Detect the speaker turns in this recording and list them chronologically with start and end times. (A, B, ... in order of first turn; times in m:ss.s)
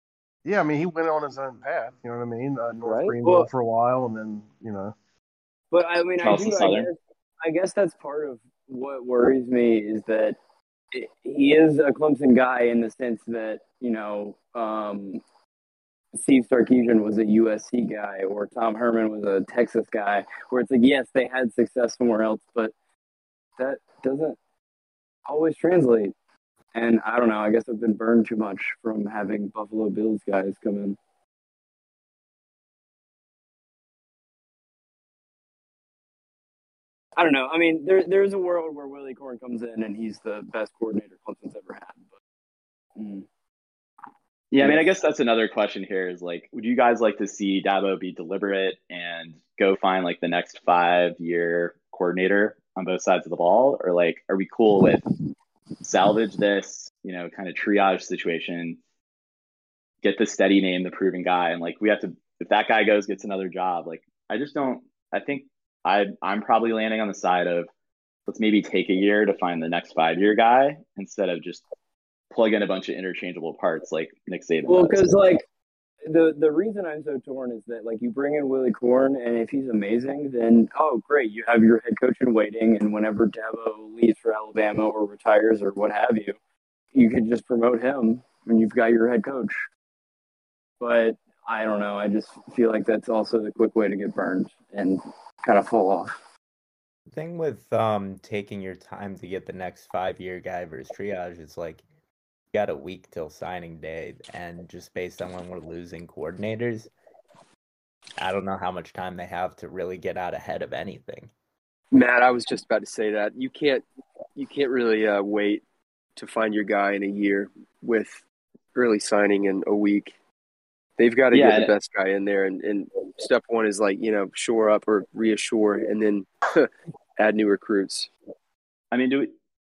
0:00.4-0:05.0 A
0:02.8-0:03.2 B
0:05.7-0:10.4 C
0:06.2-0:06.9 D
0:10.9-0:15.2 C
0:16.1-0:22.7 C
0:23.6-0:24.4 C
0:25.3-0:26.1 C
0:26.8-0:31.0 C
0:37.2-0:42.1 C
0:43.0-0:43.3 C
0:44.5-0:55.0 D
0:44.6-0:45.0 C
0:55.8-0:58.8 D
1:00.0-1:07.7 D
1:08.3-1:11.6 D
1:12.3-1:15.1 D
1:14.7-1:15.4 C
1:16.0-1:26.4 C
1:26.9-1:29.7 C
1:30.8-1:36.2 C
1:37.1-1:41.8 E
1:42.5-1:46.9 E
1:48.2-1:51.3 E
1:51.9-1:53.8 B
1:54.4-1:55.6 B
1:56.2-1:58.2 B
1:58.7-2:00.2 B
2:01.0-2:08.1 B
2:01.3-2:01.7 D
2:08.9-2:09.3 D